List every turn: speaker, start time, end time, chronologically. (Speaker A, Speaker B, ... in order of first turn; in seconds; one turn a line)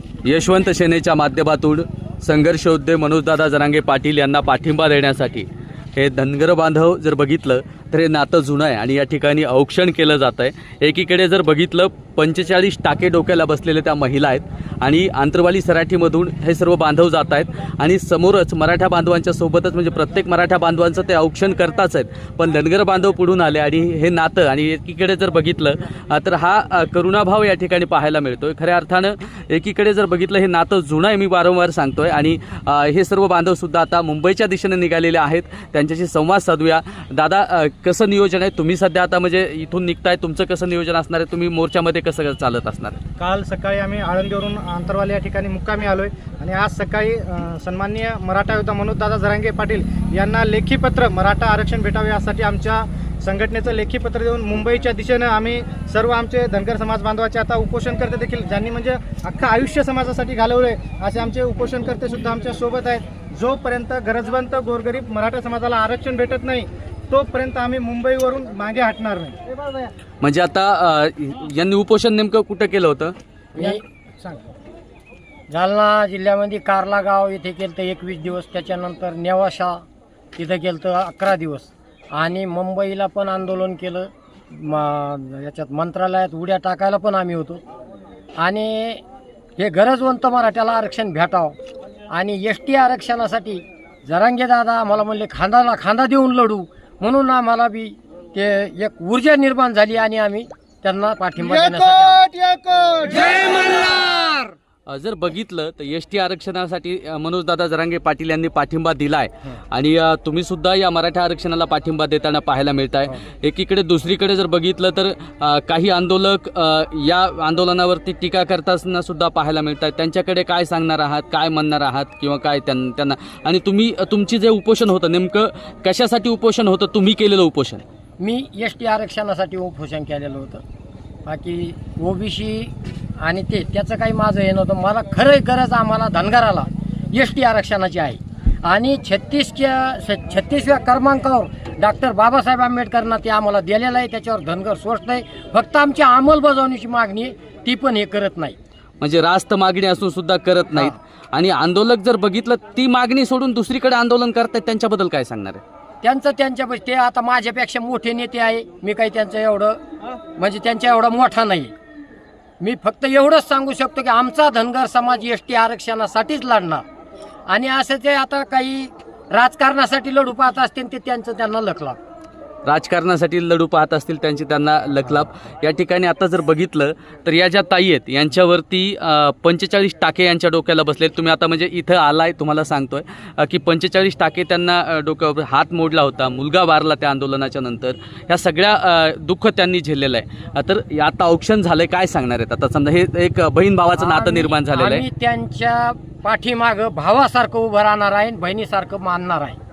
Speaker A: 0.2-43.0
Speaker B: 43.2-69.9
Speaker A: 70.2-73.2
Speaker C: 73.6-73.8
Speaker B: 73.6-74.4
Speaker C: 75.5-79.8
Speaker C: 80.4-87.6
Speaker C: 88.4-89.0
Speaker C: 89.6-91.6
Speaker C: 92.1-102.3
Speaker B: 101.4-103.7
Speaker A: 104.9-127.8
Speaker C: 128.2-130.6
Speaker C: 131.2-148.6
Speaker A: 149.0-155.6
Speaker C: 156.0-159.8
Speaker C: 160.4-161.7
Speaker C: 162.6-166.8
Speaker C: 167.5-172.0
Speaker A: 172.7-195.1
Speaker C: 194.0-199.6